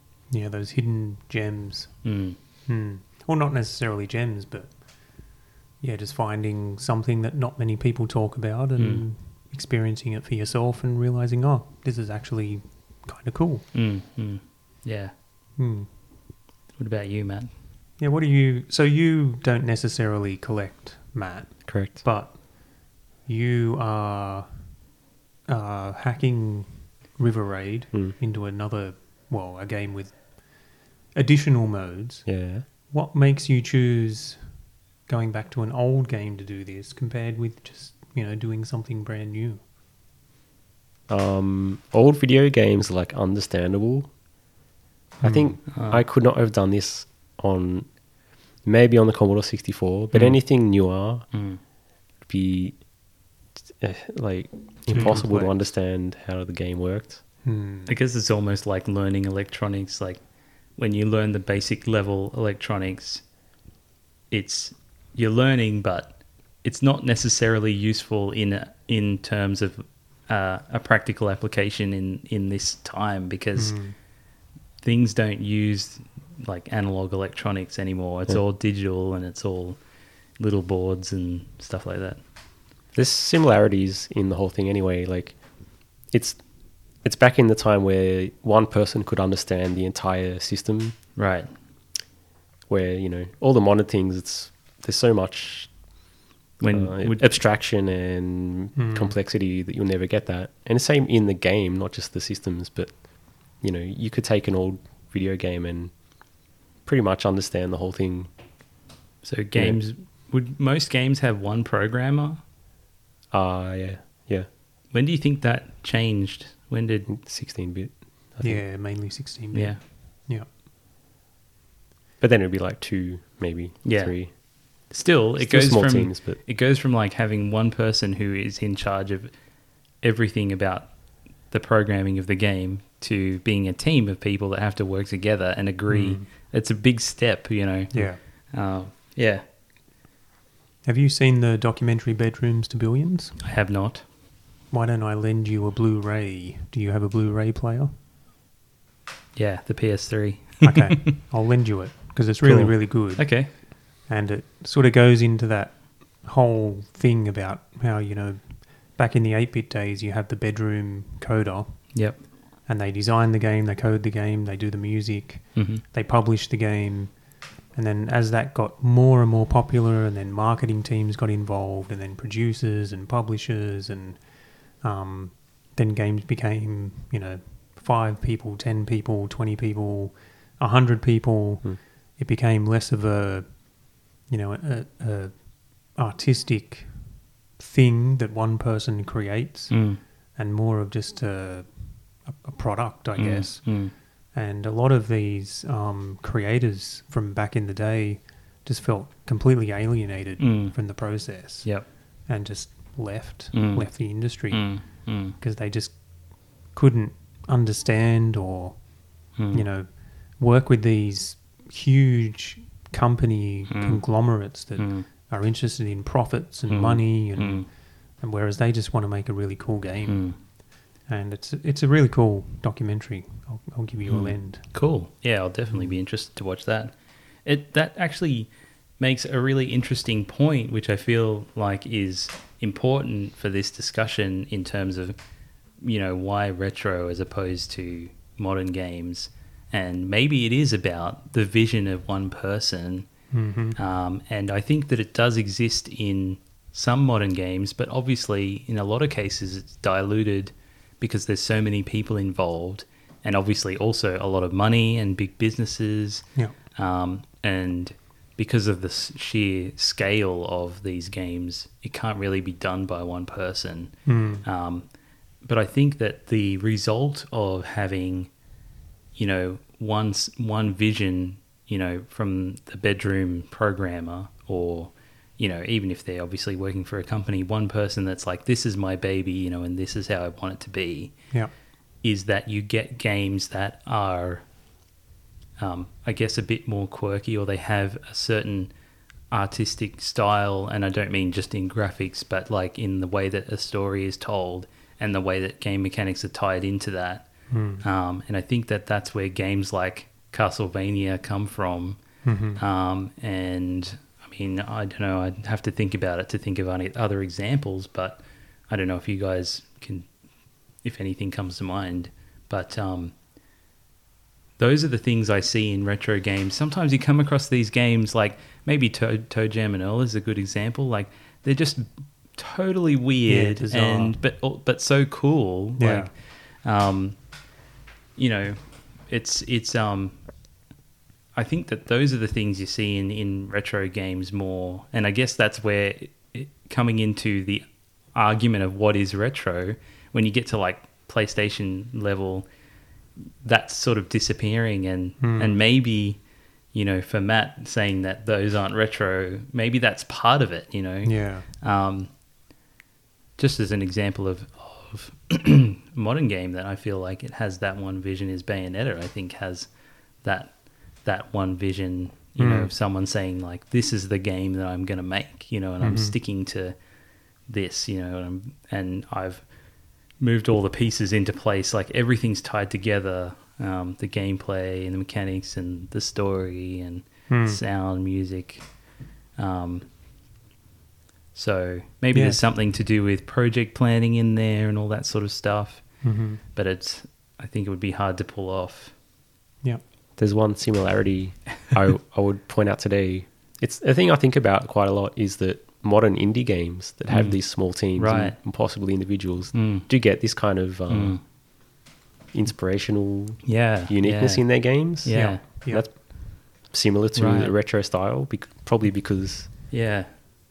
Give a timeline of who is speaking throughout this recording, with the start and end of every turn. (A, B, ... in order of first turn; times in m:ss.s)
0:00.3-0:02.0 A
0:02.0-0:02.4 B
0:02.7-0:04.8 A
0:05.8-0:13.7 A
0:08.8-0:09.0 B
0:13.7-0:15.1 B
0:15.6-0:15.9 A
0:16.8-0:17.5 B
0:18.0-0:24.5 A
0:21.7-0:22.0 C
0:25.5-0:34.5 A
0:32.3-0:32.7 C
0:35.1-0:39.6 A
0:41.1-0:44.1 C
0:45.2-0:48.0 C
0:45.2-0:45.6 A
0:45.7-0:46.0 B
0:48.6-0:51.3 C
0:50.1-0:50.4 B
0:51.3-0:51.6 B
0:52.2-0:52.9 C
0:53.8-0:57.2 C
0:54.9-0:55.6 A
0:54.9-0:55.2 B
0:57.4-0:57.9 A
0:57.9-1:00.2 B
1:00.8-1:03.2 B
1:04.3-1:13.8 B
1:13.6-1:14.0 A
1:14.8-1:19.8 B
1:20.4-1:22.2 B
1:22.9-1:25.4 C
1:26.0-1:26.4 C
1:27.0-1:31.0 C
1:31.2-1:31.5 B
1:32.7-1:35.8 C
1:36.6-1:37.4 B
1:36.7-1:46.0 C
1:38.8-1:39.2 A
1:46.8-1:48.3 C
1:49.2-1:52.4 B
1:53.3-1:54.5 C
1:54.9-1:57.1 B
1:57.1-1:58.6 C
1:58.4-2:00.5 A
1:59.5-1:59.8 B
2:02.2-2:04.3 C
2:03.8-2:09.3 B
2:05.4-2:06.4 C
2:10.0-2:10.9 B
2:11.5-2:19.4 B
2:15.9-2:16.3 A
2:17.9-2:18.2 A
2:20.8-2:23.4 A
2:23.4-2:24.0 B
2:24.7-2:27.9 A
2:29.4-2:31.1 B
2:30.6-2:42.1 A
2:32.4-2:32.7 C
2:33.1-2:33.5 B
2:41.9-2:42.2 B
2:42.6-2:47.2 A
2:45.6-2:45.8 B
2:47.7-3:26.0 A
3:09.7-3:10.0 B
3:13.2-3:13.9 B
3:20.4-3:20.8 B
3:23.5-3:25.4 B
3:26.6-3:40.5 A
3:29.4-3:29.6 B
3:33.7-3:34.2 B
3:34.8-3:35.1 B
3:36.7-3:37.7 B
3:40.1-3:40.4 B
3:41.1-3:44.8 A
3:44.1-3:55.2 B
3:45.7-3:46.0 A
3:55.8-4:03.1 B
4:03.3-4:03.8 A
4:03.8-4:16.2 B
4:16.8-4:24.9 B
4:24.0-4:24.5 A
4:25.4-4:28.3 B
4:29.2-4:41.1 B
4:42.0-4:44.4 B
4:45.6-4:48.7 B
4:49.3-4:57.3 B
4:57.5-4:57.8 A
4:57.8-5:02.0 B
5:02.2-5:02.6 A
5:02.6-5:10.1 B
5:10.8-5:13.1 B
5:14.6-5:27.2 B
5:23.3-5:24.2 A
5:25.8-5:26.1 A
5:28.2-5:30.2 B
5:31.4-5:42.5 B
5:43.4-5:46.2 B
5:45.2-5:45.6 A
5:46.7-5:52.1 B
5:51.0-5:51.5 A
5:53.4-5:59.7 B
6:00.2-6:06.8 B
6:02.4-6:02.7 A
6:05.8-6:06.2 A
6:07.5-6:09.5 B
6:10.2-6:18.7 B
6:17.3-6:17.6 A
6:19.4-6:19.8 B
6:21.3-6:25.9 B
6:22.1-6:22.4 A
6:26.0-6:26.4 A
6:26.5-6:28.9 B
6:30.2-6:41.2 C
6:37.1-6:38.4 B
6:39.5-6:39.9 B
6:40.9-6:41.2 B
6:42.3-6:49.5 C
6:43.4-6:45.4 B
6:45.1-6:45.9 A
6:47.2-6:47.5 B
6:49.7-6:50.1 B